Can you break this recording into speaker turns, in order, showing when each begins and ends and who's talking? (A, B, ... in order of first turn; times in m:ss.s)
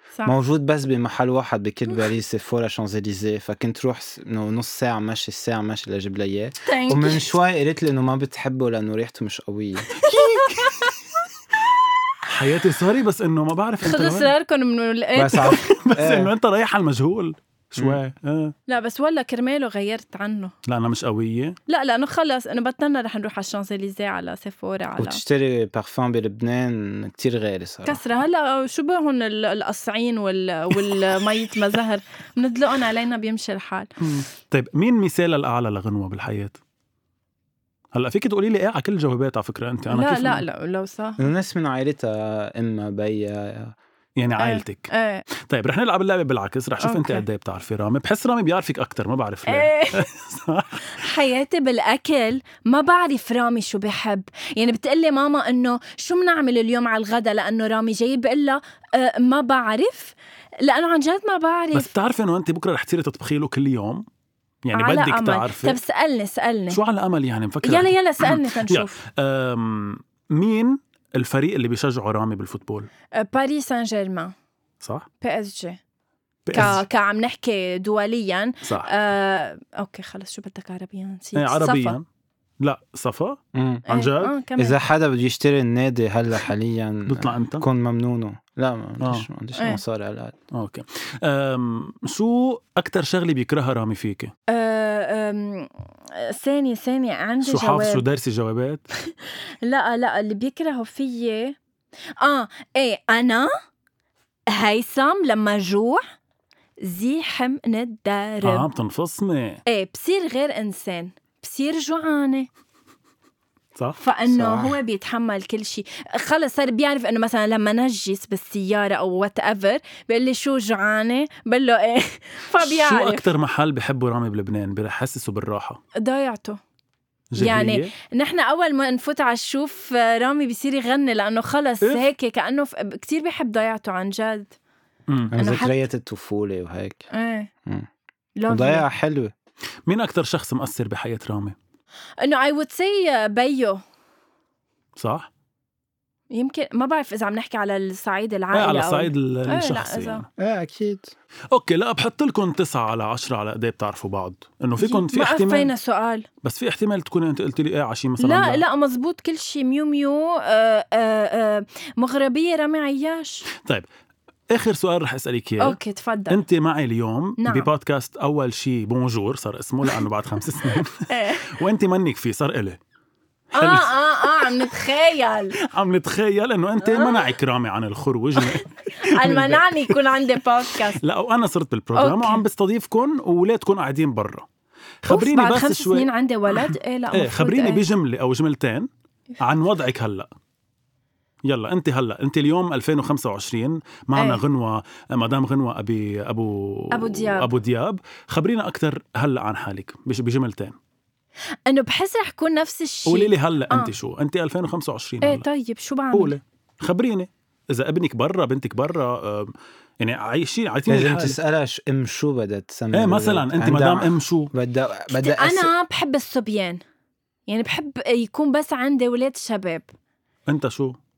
0:00.2-0:09.9 A
0:06.6-0:07.2 B
0:09.9-0:10.9 B
0:10.0-0:11.0 C
0:12.2-0:14.3 C
0:13.8-0:15.7 B
0:15.2-0:16.3 A
0:15.4-0:18.5 C
0:18.7-0:20.5 B
0:20.6-0:21.6 C
0:21.7-0:25.2 B
0:25.0-0:28.0 A
0:27.8-0:33.9 B
0:34.0-0:36.6 C
0:37.9-0:40.4 C
0:39.9-0:41.2 B
0:41.2-0:43.7 A
0:44.2-0:51.1 C
0:44.4-0:45.2 B
0:46.8-0:47.2 B
0:49.5-0:50.0 B
0:50.9-1:01.9 B
1:01.7-1:04.0 C
1:04.6-1:05.8 C
1:04.7-1:06.8 B
1:06.7-1:12.9 C
1:07.6-1:09.0 B
1:13.2-1:14.3 B
1:14.8-1:15.0 C
1:15.2-1:15.8 B
1:16.4-1:16.8 C
1:16.5-1:22.0 B
1:18.6-1:18.9 C
1:21.4-1:22.0 C
1:22.6-1:24.3 C
1:23.5-1:23.8 A
1:23.9-1:24.8 B
1:24.6-1:30.3 A
1:27.1-1:27.6 C
1:29.0-1:29.3 C
1:30.5-1:34.3 C
1:34.5-1:38.0 B
1:37.4-1:38.8 C
1:39.0-1:41.6 B
1:42.2-1:43.5 B
1:44.5-1:46.0 B
1:46.8-1:48.6 B
1:48.4-1:49.6 C
1:49.6-1:52.5 B
1:54.0-2:03.2 B
1:54.3-1:54.8 A
2:02.6-2:05.8 C
2:06.0-2:06.6 B
2:07.3-2:07.9 C
2:07.4-2:14.5 B
2:15.1-2:15.3 C
2:15.3-2:17.0 A
2:15.3-2:15.7 B
2:17.1-2:17.5 B
2:18.4-2:18.8 B
2:18.5-2:19.3 A
2:19.9-2:21.6 C
2:22.2-2:23.8 B
2:25.0-2:25.3 C
2:26.3-2:30.2 B
2:28.5-2:30.2 C
2:30.4-2:31.1 A
2:31.5-2:35.7 C
2:34.8-2:36.2 B
2:36.4-2:38.6 C
2:38.2-2:43.4 B
2:44.5-2:45.8 C
2:45.6-2:46.4 B
2:46.3-2:52.8 C
2:47.4-2:47.7 B
2:50.7-2:51.6 B
2:53.5-2:54.7 C
2:53.6-2:55.6 B
2:55.6-3:00.0 C
2:56.8-2:57.3 B
2:58.4-3:01.0 B
3:00.7-3:04.4 C
3:01.9-3:02.4 B
3:05.0-3:08.9 C
3:05.1-3:07.8 B
3:09.4-3:10.3 C
3:11.4-3:20.8 C
3:14.1-3:14.4 B
3:16.9-3:17.5 B
3:21.7-3:23.9 B
3:23.1-3:25.4 C
3:25.2-3:26.4 B
3:26.1-3:31.4 C
3:30.9-3:35.7 A
3:32.9-3:34.5 C
3:35.1-3:36.8 B
3:37.5-3:39.9 B
3:40.5-3:41.0 C